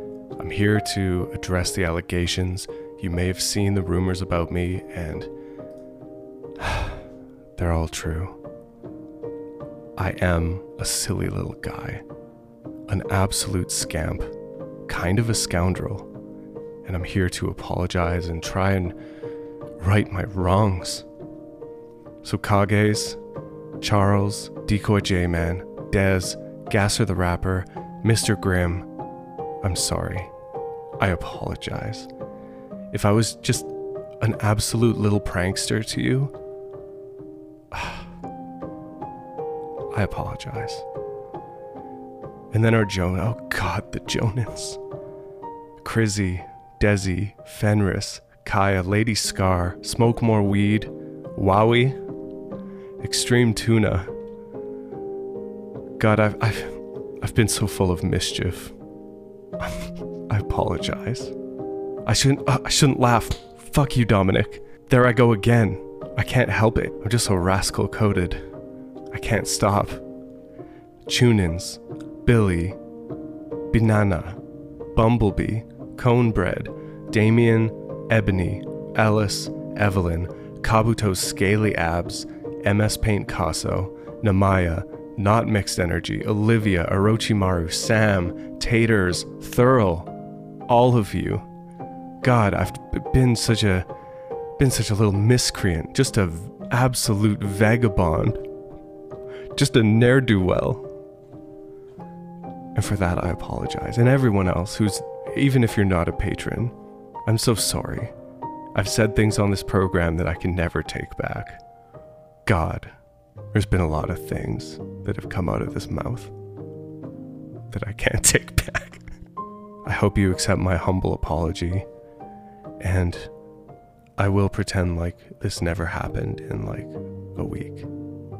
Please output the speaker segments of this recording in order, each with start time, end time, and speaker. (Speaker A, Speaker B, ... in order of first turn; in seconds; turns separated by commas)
Speaker A: 0.4-5.3, Speaker A: 6.6-7.0, Speaker A: 7.6-8.3, Speaker A: 10.0-12.0, Speaker A: 12.9-14.3, Speaker A: 14.9-16.1, Speaker A: 16.9-18.9, Speaker A: 19.8-21.1, Speaker A: 22.2-23.2, Speaker A: 23.8-28.9, Speaker A: 29.6-30.3, Speaker A: 31.0-32.1, Speaker A: 32.9-33.7, Speaker A: 34.2-36.3, Speaker A: 37.7-38.0, Speaker A: 39.9-40.8, Speaker A: 42.5-44.8, Speaker A: 45.8-52.0, Speaker A: 53.0-54.1, Speaker A: 56.0-58.7, Speaker A: 59.6-61.3, Speaker A: 62.1-68.4, Speaker A: 69.1-70.0, Speaker A: 71.1-72.8, Speaker A: 73.7-74.4, Speaker A: 75.0-90.1, Speaker A: 90.7-91.4, Speaker A: 92.2-93.9, Speaker A: 94.6-98.4, Speaker A: 99.6-100.8, Speaker A: 102.8-106.7, Speaker A: 107.3-108.1, Speaker A: 108.8-111.6, Speaker A: 112.5-112.9, Speaker A: 113.5-116.3, Speaker A: 117.7-119.0, Speaker A: 119.8-121.9, Speaker A: 122.8-123.3, Speaker A: 124.2-127.9